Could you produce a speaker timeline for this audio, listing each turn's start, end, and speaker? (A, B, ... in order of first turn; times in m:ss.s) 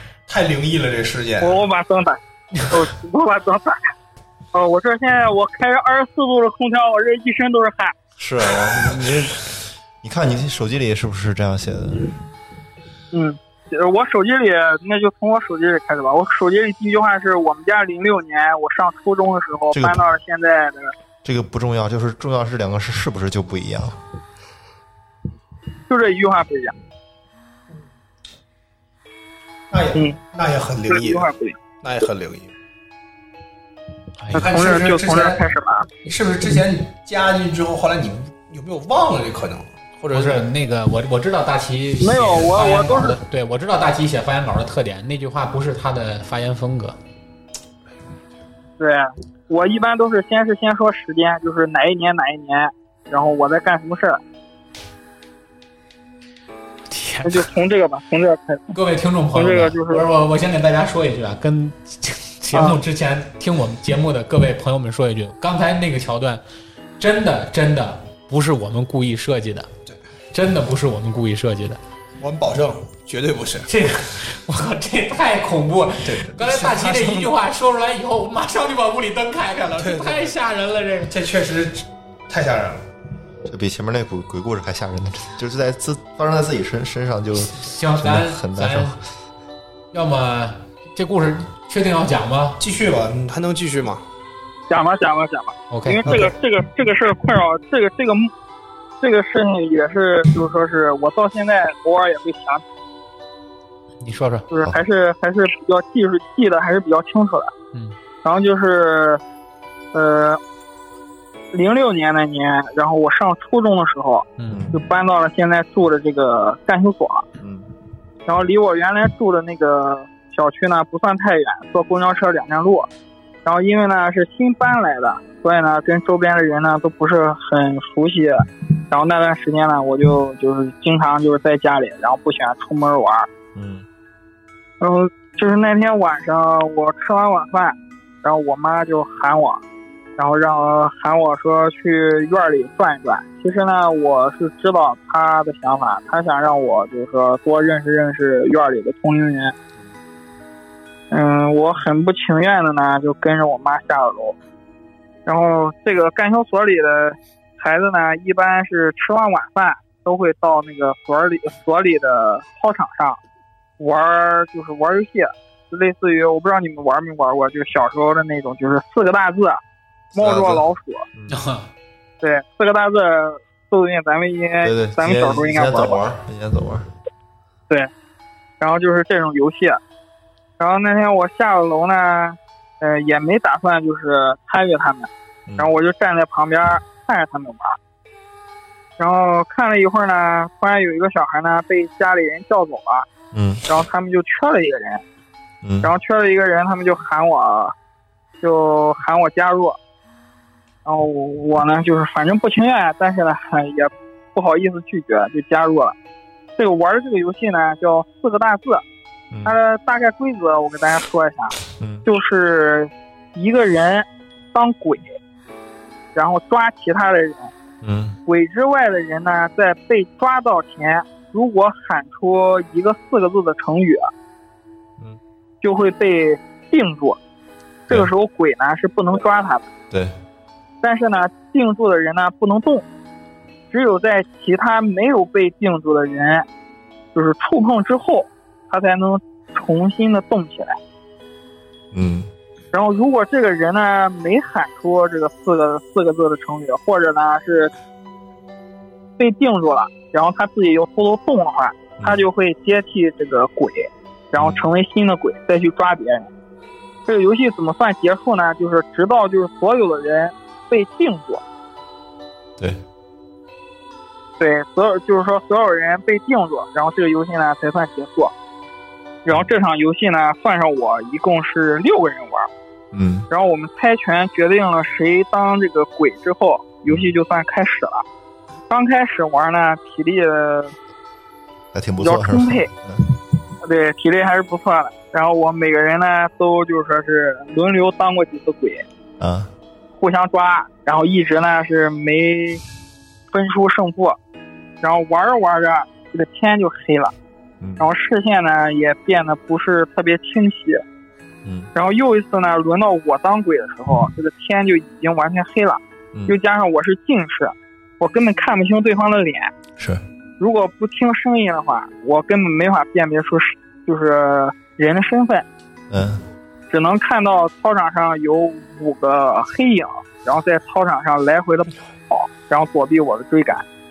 0:00.3-0:01.6 A
0:01.4-0:03.8 B
0:04.5-0:08.0 B
0:08.2-0:12.1 C
0:13.1-0:20.9 B
0:19.7-0:20.0 C
0:21.2-0:24.0 C
0:25.9-0:26.8 B
0:29.7-0:31.3 A
0:30.9-0:31.6 B
0:31.8-0:32.5 A
0:34.2-0:34.5 D
0:34.3-0:35.4 A
0:34.4-0:35.9 B
0:36.0-0:40.5 A
0:40.1-0:47.0 D
0:42.0-0:43.2 B
0:48.8-0:54.2 B
0:56.9-0:57.5 D
0:57.2-0:58.8 B
0:58.7-1:06.4 D
0:59.4-1:00.0 B
1:02.5-1:02.8 B
1:07.0-1:09.7 D
1:10.3-1:11.8 D
1:12.2-1:13.7 A
1:13.7-1:21.1 D
1:16.0-1:17.3 A
1:19.8-1:20.4 A
1:21.1-1:22.8 A
1:23.5-1:29.0 C
1:27.5-1:29.0 D
1:29.9-1:32.6 D
1:32.6-1:34.0 A
1:34.7-1:38.3 B
1:35.7-1:36.3 D
1:39.0-1:42.6 B
1:44.0-1:44.5 D
1:44.5-1:47.5 B
1:48.2-1:49.2 B
1:49.9-1:50.4 B
1:51.5-1:57.3 B
1:54.4-1:54.6 D
1:54.5-1:54.8 C
1:57.4-1:57.7 C
1:58.3-2:02.9 B
2:03.4-2:13.3 B
2:13.6-2:13.9 C
2:14.8-2:19.6 B
2:20.2-2:29.6 B
2:31.1-2:34.4 B
2:35.3-2:43.2 B
2:43.8-2:49.6 B
2:50.1-2:51.0 B
2:50.2-2:50.6 C
2:51.3-2:51.7 D
2:52.2-2:56.0 B
2:54.6-2:56.9 C
2:58.6-2:59.8 B
3:00.6-3:07.8 B
3:05.5-3:05.7 C
3:09.0-3:13.1 B
3:13.3-3:13.7 C
3:13.7-3:15.0 B
3:15.6-3:15.9 C
3:15.8-3:17.7 B
3:18.4-3:19.8 B
3:20.8-3:26.0 B
3:26.6-3:28.8 B
3:29.3-3:29.6 C
3:29.4-3:35.1 B
3:31.8-3:32.1 C
3:36.2-3:37.5 B
3:37.8-3:38.2 C
3:38.3-3:44.1 B
3:45.6-3:47.2 B
3:47.9-3:49.7 B
3:49.9-3:50.2 C
3:50.8-3:52.8 B
3:53.7-3:56.5 B
3:57.2-4:00.8 B
4:01.9-4:02.3 C
4:02.7-4:07.7 B
4:09.2-4:16.3 B
4:12.0-4:12.3 C
4:14.4-4:14.7 C
4:17.1-4:21.4 B
4:24.4-4:28.3 B
4:29.2-4:32.5 B
4:29.3-4:29.5 C
4:32.9-4:33.3 C
4:33.3-4:38.0 B
4:36.9-4:37.2 C
4:38.7-4:40.7 B
4:41.7-4:43.1 C
4:42.0-4:42.7 B
4:43.6-4:48.8 B
4:49.2-4:49.5 C
4:50.0-4:52.6 B
4:53.3-4:54.2 B
4:54.8-4:57.1 B
4:57.6-4:57.9 C
4:57.8-5:00.8 B
5:01.4-5:01.7 C
5:01.7-5:09.5 B
5:09.8-5:10.0 C
5:10.4-5:15.4 B
5:15.9-5:16.2 C
5:16.7-5:23.6 B